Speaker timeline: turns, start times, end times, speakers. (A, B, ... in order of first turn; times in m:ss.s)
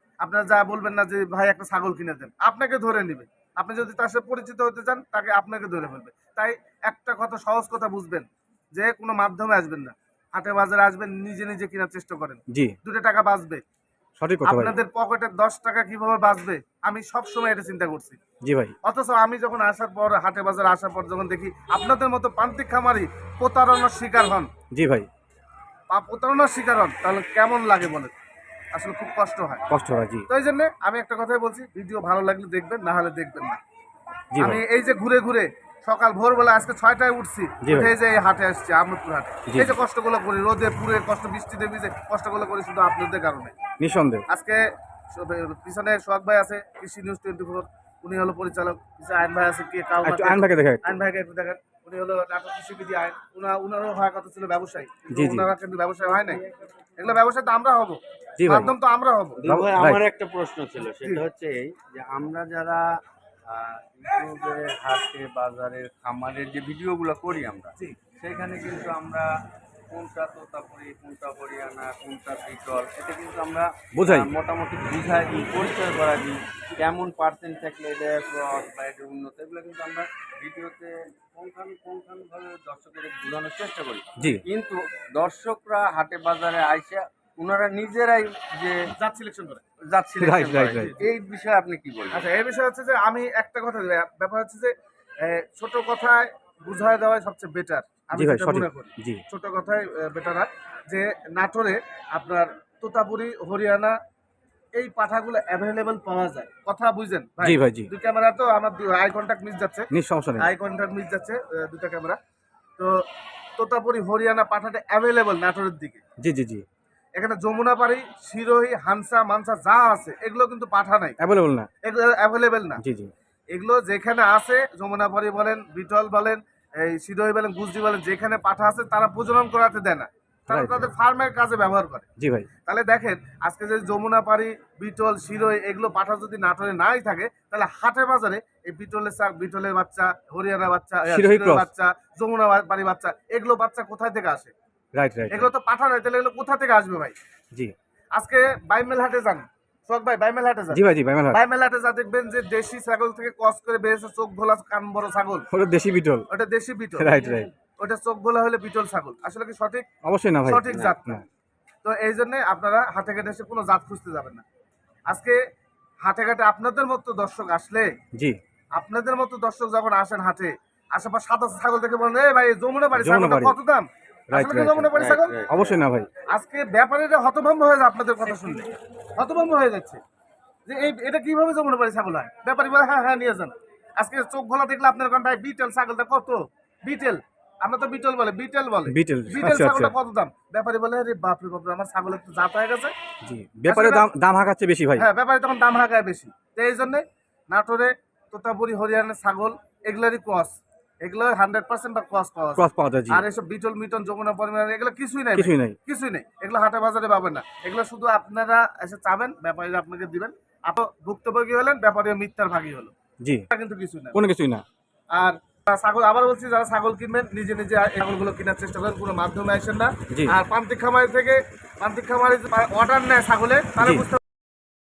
0:00.2-0:13.6 A
0:14.2-0:14.8 B
0:14.5-0:18.2 A
0:18.4-0:18.7 B
0:18.8-0:24.5 A
0:24.7-0:25.1 B
0:25.9-0:28.2 A
0:28.7-0:29.6 A
0:29.7-0:30.3 B
0:30.3-0:33.6 A
0:34.3-0:34.6 B
0:34.4-0:43.5 A
0:37.6-0:38.0 B
0:39.5-0:39.8 B
0:43.8-0:44.2 B
0:44.3-0:44.6 A
0:45.1-0:56.4 A
0:50.0-0:51.0 B
0:55.1-0:55.5 B
0:57.0-0:59.4 A
0:58.4-0:58.7 B
0:59.4-1:02.9 C
0:59.4-1:00.0 B
1:03.5-1:09.3 C
1:09.9-1:29.0 C
1:13.9-1:14.3 B
1:24.2-1:24.4 B
1:29.0-1:29.6 A
1:29.9-1:32.3 C
1:30.2-1:31.0 B
1:30.7-1:31.1 A
1:32.1-1:44.0 A
1:38.1-1:39.2 B
1:44.8-1:49.9 A
1:47.4-1:47.9 B
1:49.9-1:50.5 B
1:50.4-1:52.2 A
1:52.8-1:53.0 A
1:53.6-1:56.0 A
1:56.2-1:56.6 B
1:57.2-2:01.2 A
2:01.2-2:01.7 B
2:01.8-2:02.8 A
2:02.8-2:03.1 B
2:03.5-2:12.1 A
2:10.5-2:10.9 B
2:12.2-2:12.5 B
2:12.7-2:24.5 A
2:21.1-2:21.7 B
2:25.0-2:25.5 B
2:25.3-2:27.2 A
2:28.1-2:30.8 A
2:30.7-2:31.4 B
2:31.3-2:35.5 A
2:35.5-2:36.3 B
2:36.3-2:37.1 A
2:37.0-2:37.5 B
2:37.8-2:39.9 A
2:40.0-2:41.2 B
2:40.5-2:41.2 A
2:40.6-2:41.2 C
2:41.8-2:44.4 A
2:45.1-2:45.4 A
2:46.0-2:47.9 A
2:48.8-2:55.4 A
2:53.0-2:53.6 B
2:54.3-2:54.9 B
2:54.9-2:55.7 C
2:55.4-2:56.1 B
2:56.3-3:00.0 A
3:00.7-3:12.9 A
3:08.9-3:09.9 B
3:13.2-3:15.0 B
3:13.7-3:14.1 A
3:15.0-3:32.9 A
3:22.6-3:23.2 B
3:25.3-3:25.8 B
3:33.5-3:34.2 A
3:34.1-3:34.6 B
3:35.1-3:44.2 A
3:40.1-3:40.4 B
3:43.8-3:44.1 B